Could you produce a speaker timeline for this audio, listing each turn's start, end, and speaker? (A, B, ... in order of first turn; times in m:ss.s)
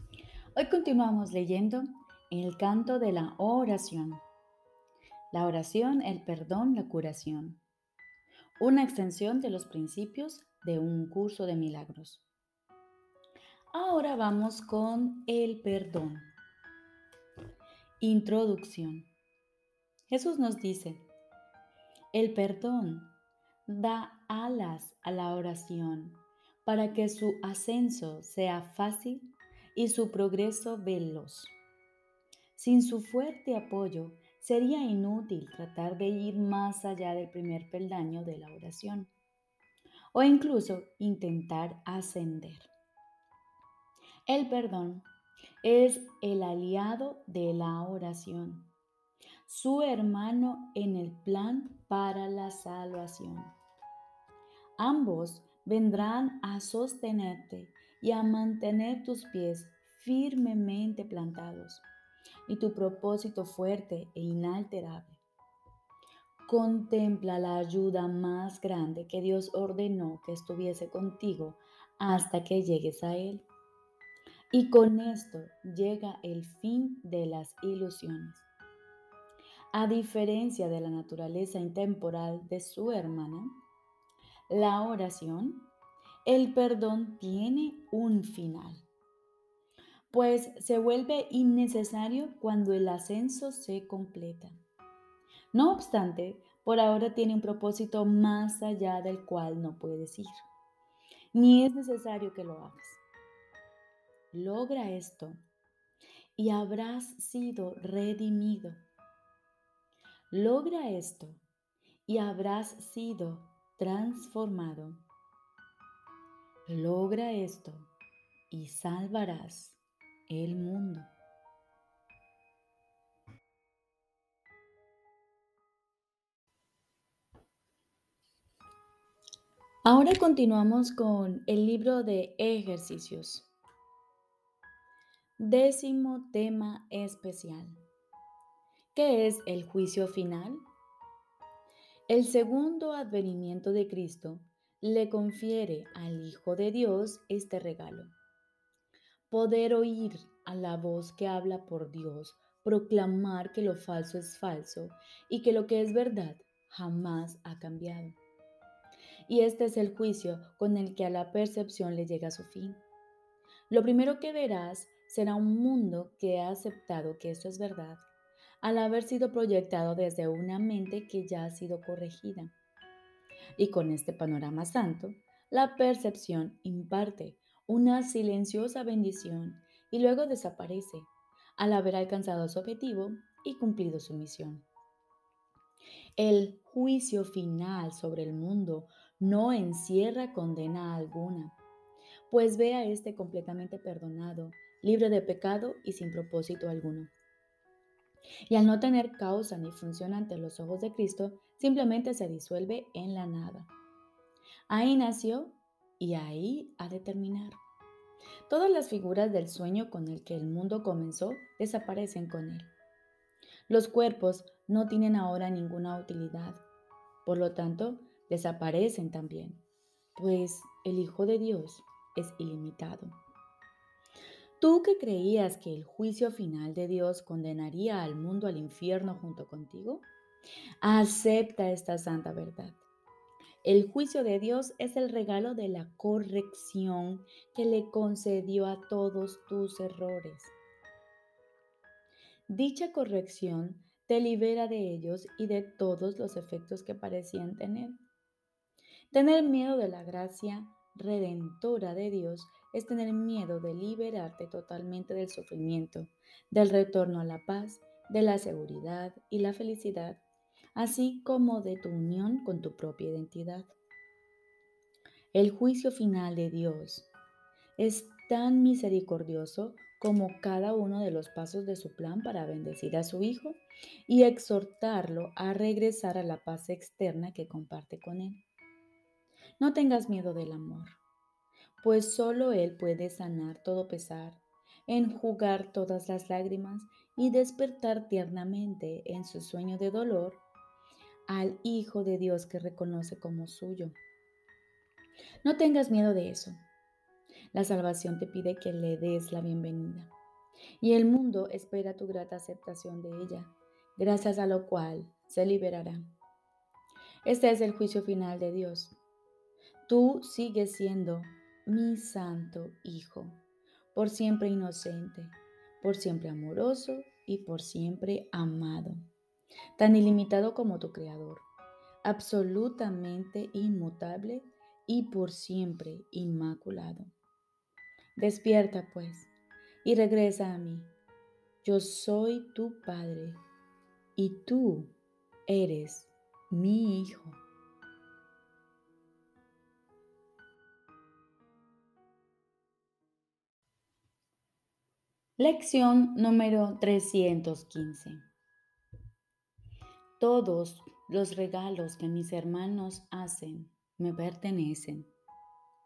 0:00.6-0:04.2 A
0:05.3-0:07.6 A
0:08.6-0:12.2 A
0:13.7-0:16.3 A
0:18.0-0:19.1 A
0:20.1-0:21.1 A
0:22.1-0:31.6 A
0:32.6-0:39.1 A
0:40.1-0:42.7 A
0:44.3-0:45.1 A
0:45.6-0:48.7 A
0:49.5-0:53.6 A
0:54.8-1:01.9 A
1:02.5-1:05.2 A
1:06.4-1:13.5 A
1:14.5-1:18.5 A
1:19.7-1:23.6 A
1:24.5-1:25.7 A
1:26.2-1:28.8 A
1:30.1-1:34.6 A
1:35.5-1:40.5 A
1:41.3-1:43.0 A
1:44.3-1:45.4 A
1:46.4-1:48.8 A
1:50.3-1:51.4 A
1:52.1-1:55.0 A
1:56.7-1:57.9 A
1:58.5-2:01.1 A
2:09.8-2:13.5 A
2:15.4-2:17.8 A
2:18.9-2:20.7 A
2:22.1-2:28.1 A
2:29.3-2:38.2 A
2:39.3-2:42.8 A
2:43.7-2:48.1 A
2:48.6-2:52.5 A
2:53.6-3:04.7 A
3:06.2-3:11.6 A
3:12.3-3:17.1 A
3:18.5-3:23.7 A
3:24.7-3:27.6 A
3:28.5-3:32.7 A
3:33.7-3:36.6 A
3:37.2-3:39.6 A
3:40.2-3:43.2 A
3:44.6-3:50.1 A
3:50.8-3:52.8 A
3:53.6-4:00.5 A
4:02.5-4:08.0 A
4:09.1-4:20.2 A
4:20.8-4:23.7 A
4:25.3-4:27.1 A
4:27.8-4:38.4 A
4:39.6-4:41.0 A
4:41.8-4:50.4 A
4:51.3-4:54.0 A
4:55.4-4:56.6 A
4:57.5-5:00.1 A
5:00.8-5:06.0 A
5:07.2-5:09.0 A
5:09.9-5:13.4 A
5:13.9-5:19.0 A
5:19.8-5:21.5 A
5:22.0-5:27.1 A
5:28.2-5:29.3 A
5:29.8-5:30.9 A
5:31.6-5:33.4 A
5:34.2-5:35.0 A
5:35.5-5:37.4 A
5:45.4-5:48.3 A
5:50.2-5:55.1 A